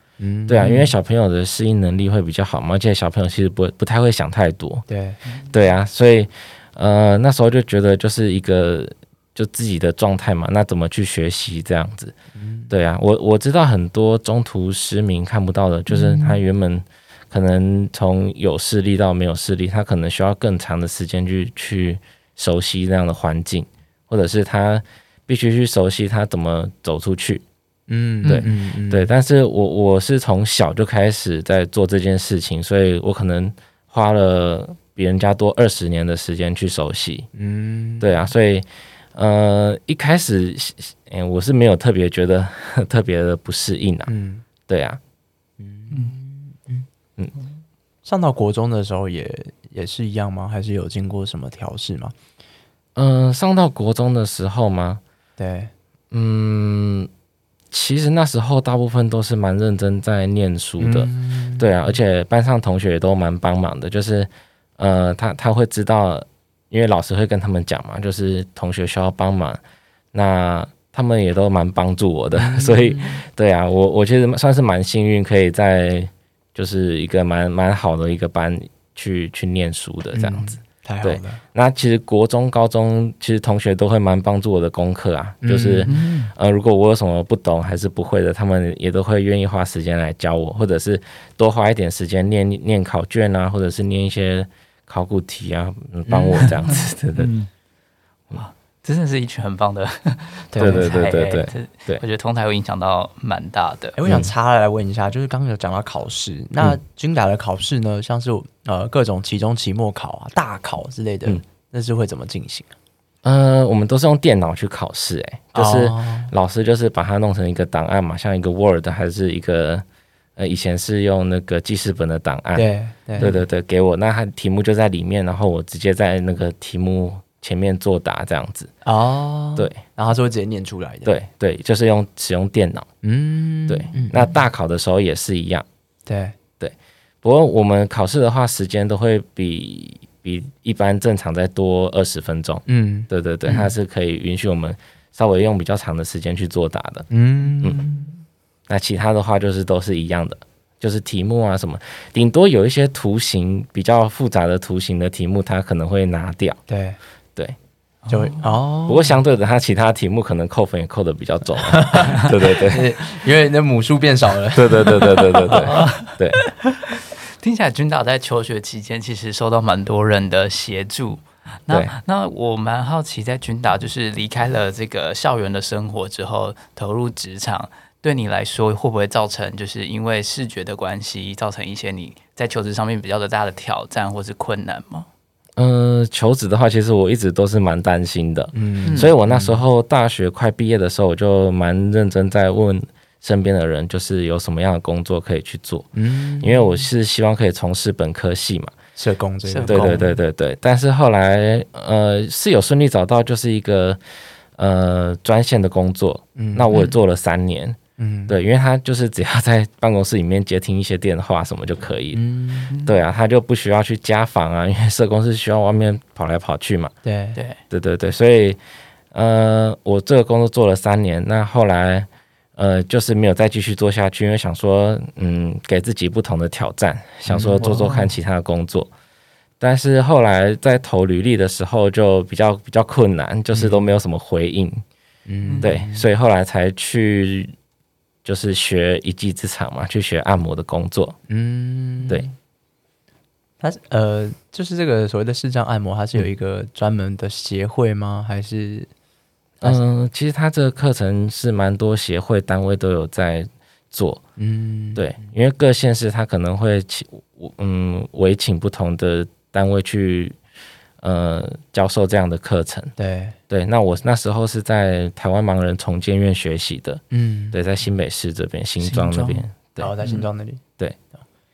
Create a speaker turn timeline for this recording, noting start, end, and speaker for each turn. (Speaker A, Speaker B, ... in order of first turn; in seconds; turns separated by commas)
Speaker A: 0.2-0.9, Speaker B: 0.5-4.9, Speaker A: 4.9-5.2, Speaker B: 5.5-12.2, Speaker A: 12.3-12.7, Speaker B: 12.7-27.4, Speaker A: 15.9-16.4, Speaker A: 27.9-29.1, Speaker B: 28.2-37.3, Speaker A: 37.4-38.1, Speaker B: 38.0-44.1, Speaker A: 44.1-44.5, Speaker B: 44.7-45.0, Speaker A: 45.6-46.9, Speaker A: 48.0-52.1, Speaker B: 53.0-55.0, Speaker A: 55.4-55.7, Speaker B: 56.1-57.1, Speaker B: 57.7-69.6, Speaker A: 60.8-61.7, Speaker B: 70.1-97.3, Speaker A: 72.3-73.2, Speaker A: 80.2-81.4, Speaker A: 85.4-86.1, Speaker C: 85.9-86.3, Speaker A: 96.1-96.7, Speaker C: 96.4-97.5, Speaker C: 98.3-104.0, Speaker A: 100.5-100.9, Speaker B: 100.6-102.0, Speaker A: 104.0-112.7, Speaker B: 104.1-104.3, Speaker B: 113.2-119.8, Speaker A: 115.5-116.3, Speaker B: 120.4-122.7, Speaker A: 122.5-123.3, Speaker B: 123.2-128.7, Speaker A: 128.8-131.1, Speaker B: 131.1-132.9, Speaker A: 133.0-134.3, Speaker B: 133.7-135.7, Speaker A: 136.1-136.4, Speaker B: 136.6-147.1, Speaker A: 142.7-143.1, Speaker A: 147.1-148.1, Speaker B: 148.7-156.6, Speaker A: 156.7-157.0, Speaker C: 158.0-158.5, Speaker A: 158.1-159.2, Speaker B: 158.9-162.9, Speaker A: 161.7-165.7, Speaker B: 164.5-166.4, Speaker C: 165.5-185.1, Speaker B: 171.7-171.9, Speaker B: 185.6-198.7, Speaker A: 188.5-189.6, Speaker C: 188.8-189.1, Speaker A: 195.9-196.8, Speaker A: 199.0-200.0, Speaker C: 199.5-200.2, Speaker B: 199.7-204.0, Speaker B: 204.6-216.9, Speaker A: 206.3-206.7, Speaker A: 208.0-208.3, Speaker A: 212.1-212.7, Speaker C: 212.7-213.0, Speaker A: 217.0-217.4, Speaker B: 217.7-218.6, Speaker B: 219.1-228.9, Speaker A: 227.3-227.7, Speaker C: 227.6-228.1, Speaker B: 229.6-234.8, Speaker A: 233.5-233.8, Speaker A: 235.3-236.1, Speaker C: 235.5-235.7, Speaker B: 235.6-237.5, Speaker B: 238.2-241.2, Speaker A: 241.3-242.3, Speaker A: 243.6-248.9, Speaker B: 249.6-254.2, Speaker A: 254.4-255.1, Speaker B: 254.9-260.4, Speaker B: 261.0-262.9, Speaker A: 263.0-263.4, Speaker B: 263.5-269.9, Speaker A: 267.1-267.6, Speaker C: 268.8-269.5, Speaker A: 269.8-270.6, Speaker C: 270.0-270.3